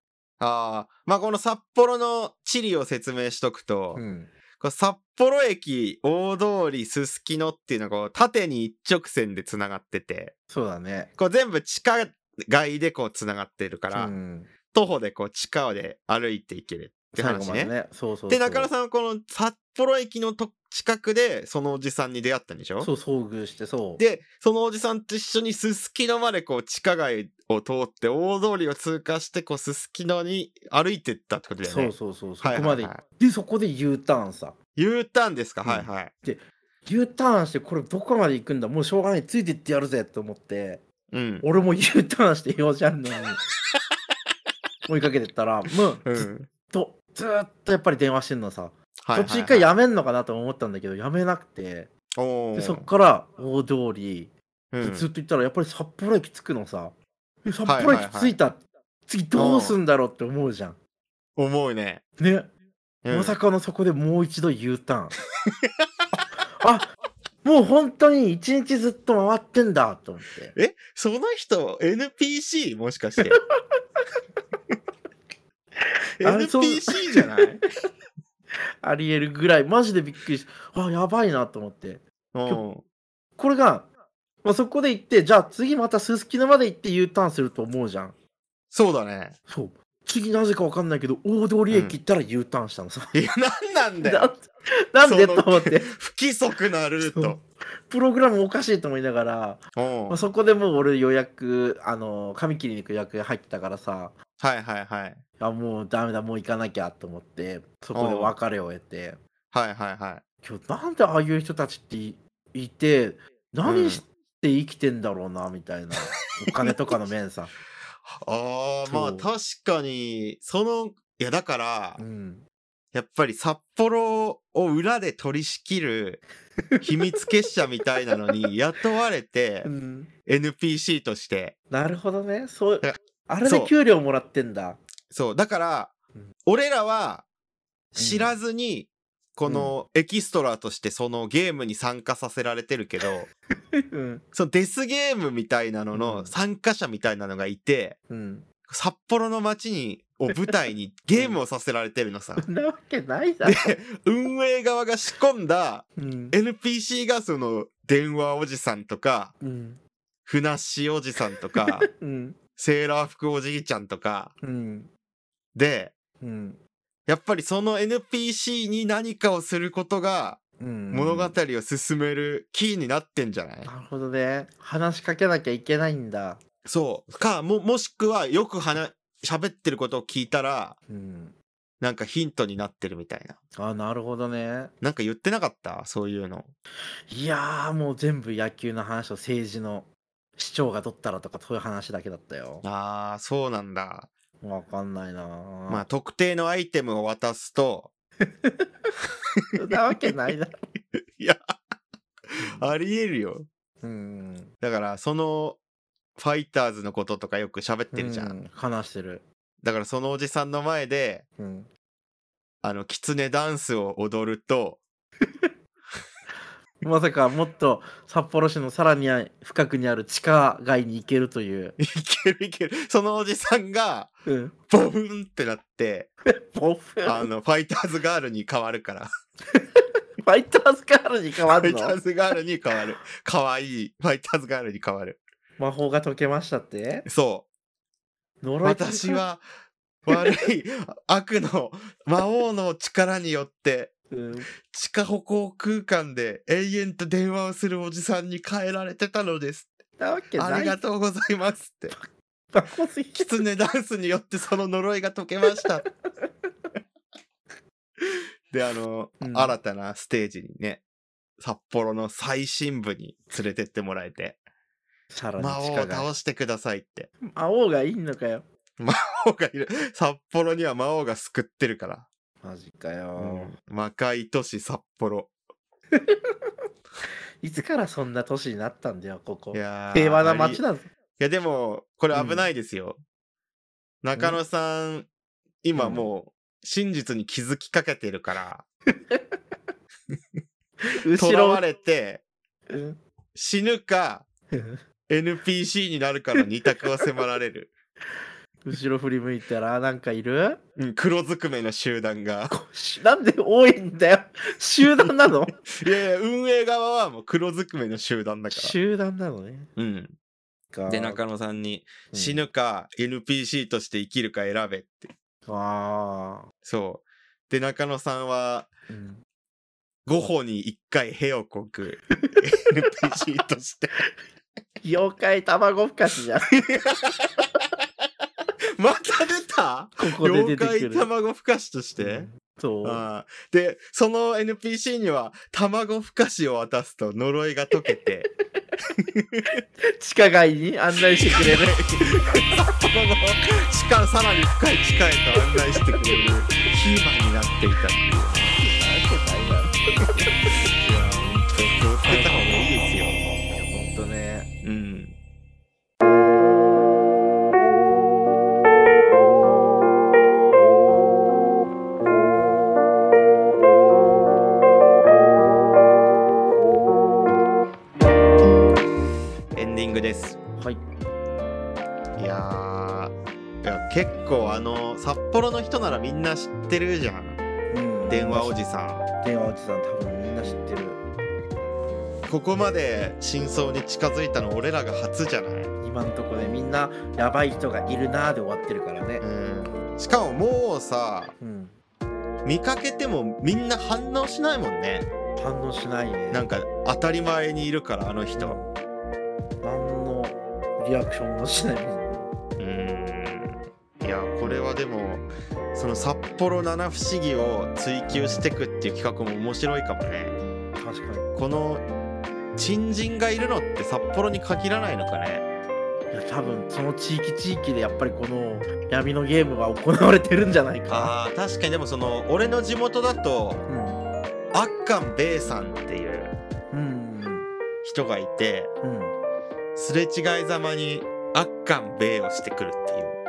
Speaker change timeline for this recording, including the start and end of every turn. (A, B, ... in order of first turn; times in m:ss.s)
0:00.4-0:04.0 A
0:03.9-0:04.3 B
0:04.6-0:10.3 A
0:10.5-0:11.1 B
0:11.2-0:14.2 A
0:13.9-0:14.5 B
0:14.7-0:17.7 A
0:17.2-0:18.7 B
0:18.3-0:22.9 A
0:22.8-0:24.0 B
0:24.0-0:33.0 A
0:31.6-0:34.6 B
0:34.8-0:36.1 A
0:35.6-0:40.8 B
0:41.1-0:41.4 A
0:41.4-0:43.4 B
0:44.9-0:51.9 B
0:46.0-0:46.5 A
0:49.0-0:49.7 A
0:52.2-0:52.9 A
0:52.6-1:00.8 B
0:54.7-0:55.1 A
0:57.6-0:58.4 A
0:59.4-0:59.8 A
1:01.4-1:02.0 A
1:02.2-1:02.5 B
1:03.0-1:03.4 A
1:03.1-1:05.1 B
1:05.5-1:05.8 A
1:06.6-1:06.9 B
1:07.4-1:10.6 B
1:10.6-1:13.4 A
1:16.2-1:17.6 A
1:16.2-1:17.4 B
1:18.8-1:22.6 B
1:22.3-1:22.8 A
1:23.4-1:23.9 B
1:24.4-1:28.2 B
1:28.7-1:29.4 A
1:29.5-1:33.2 B
1:31.7-1:32.0 A
1:33.1-1:34.3 A
1:34.0-1:35.9 B
1:35.0-1:37.4 A
1:37.0-1:44.2 B
1:39.8-1:40.2 A
1:44.4-1:45.2 A
1:45.4-1:49.2 B
1:47.9-1:48.4 A
1:49.5-1:50.2 A
1:50.4-1:57.5 B
1:53.6-1:54.0 A
1:58.0-2:02.0 A
1:58.9-1:59.3 B
2:02.0-2:02.5 B
2:02.9-2:06.2 A
2:06.7-2:07.2 B
2:06.8-2:09.7 A
2:09.6-2:10.1 B
2:10.3-2:11.6 A
2:11.7-2:14.8 B
2:12.8-2:13.7 A
2:15.1-2:15.9 A
2:16.4-2:17.2 A
2:18.0-2:18.4 B
2:18.0-2:23.3 A
2:19.5-2:19.7 B
2:23.7-2:24.2 B
2:24.3-2:28.0 A
2:25.9-2:26.3 B
2:28.1-2:28.5 B
2:28.7-2:32.5 A
2:31.1-2:31.4 B
2:32.4-2:33.7 B
2:33.5-2:39.3 A
2:36.0-2:36.4 B
2:39.4-2:39.8 B
2:40.2-2:41.9 A
2:41.6-2:42.4 B
2:42.6-2:44.3 A
2:44.4-2:44.9 B
2:45.6-2:45.9 A
2:46.2-2:46.6 B
2:47.1-2:50.4 A
2:50.6-2:51.4 B
2:50.9-2:53.7 A
2:53.7-2:56.4 B
2:56.6-3:00.8 A
3:00.9-3:01.4 B
3:01.8-3:03.4 A
3:03.6-3:04.7 B
3:04.8-3:06.5 A
3:07.1-3:12.6 B
3:12.6-3:14.1 A
3:14.4-3:15.8 B
3:15.7-3:17.9 A
3:18.2-3:18.7 B
3:19.6-3:20.5 B
3:21.0-3:21.5 A
3:22.3-3:23.5 A
3:22.4-3:22.7 B
3:23.8-3:24.5 B
3:24.6-3:25.6 A
3:26.2-3:28.4 A
3:27.9-3:29.2 B
3:29.6-3:31.2 A
3:31.4-3:31.7 B
3:32.6-3:34.8 A
3:36.8-3:41.8 B
3:41.8-3:44.1 A
3:44.3-3:44.5 B
3:44.7-3:46.1 A
3:46.3-3:47.3 B
3:47.0-3:49.1 A
3:49.5-3:52.0 B
3:51.5-3:55.2 A
3:55.6-3:57.1 B
3:57.1-3:57.5 A
3:58.4-3:59.2 B
3:58.6-3:59.4 A
4:00.1-4:00.3 B
4:00.1-4:03.9 A
4:04.1-4:04.5 B
4:04.7-4:09.7 A
4:10.0-4:10.8 B
4:10.4-4:12.0 A
4:11.9-4:13.4 B
4:13.2-4:15.8 A
4:18.0-4:20.8 A
4:19.2-4:19.6 B
4:21.4-4:24.4 A
4:25.1-4:26.1 B
4:25.4-4:27.1 A
4:27.2-4:28.4 B
4:28.8-4:32.1 A
4:32.4-4:33.6 B
4:33.2-4:35.3 A
4:36.0-4:36.2 B
4:37.4-4:40.9 B
4:39.5-4:40.6 A
4:41.2-4:43.0 A
4:42.1-4:42.5 B
4:44.0-4:45.1 A
4:44.2-4:44.4 B
4:45.6-4:48.6 A
4:45.8-4:46.1 B
4:49.1-4:49.4 B
4:50.9-4:51.6 B
4:51.1-4:52.2 A
4:52.7-4:53.0 B
4:53.4-4:54.3 A
4:54.5-4:54.8 B
4:55.1-4:57.7 A
4:58.6-5:00.6 B
5:00.8-5:02.6 A
5:02.5-5:05.6 B
5:05.8-5:08.8 A
5:08.5-5:09.7 B
5:09.8-5:10.2 A
5:10.7-5:11.2 B
5:10.9-5:15.1 A
5:12.1-5:12.4 B
5:15.5-5:16.5 B
5:16.6-5:18.7 A
5:18.9-5:19.2 B
5:20.1-5:24.0 A
5:24.8-5:26.5 B
5:26.7-5:27.5 A
5:28.8-5:32.3 A
5:30.0-5:31.1 B
5:32.0-5:33.0 B
5:32.8-5:38.3 A
5:39.0-5:39.6 A
5:39.8-5:42.5 B
5:41.1-5:48.6 A
5:48.6-5:50.4 B
5:50.8-5:53.2 A
5:52.0-5:52.5 B
5:53.5-5:54.5 B
5:54.6-5:55.2 A
6:09.5-6:10.4 A
6:10.6-6:10.8 B
6:12.2-6:17.4 A
6:17.7-6:18.6 B
6:18.1-6:19.0 A
6:19.2-6:21.0 B
6:22.3-6:25.7 A
6:25.8-6:29.3 B
6:29.2-6:31.3 A
6:31.4-6:31.8 B
6:32.4-6:35.1 A
6:35.4-6:36.5 B
6:36.3-6:38.6 A
6:38.4-6:38.8 B
6:39.6-6:42.3 B
6:42.6-6:50.3 A
6:48.1-6:48.5 B
6:50.8-6:51.3 B
6:51.4-6:51.8 A
6:52.6-6:55.4 A
6:56.1-7:01.1 B
7:00.9-7:03.6 A
7:03.7-7:04.0 B
7:04.5-7:06.3 A
7:06.7-7:07.5 B
7:07.8-7:08.7 A
7:08.8-7:09.2 B
7:09.8-7:13.2 A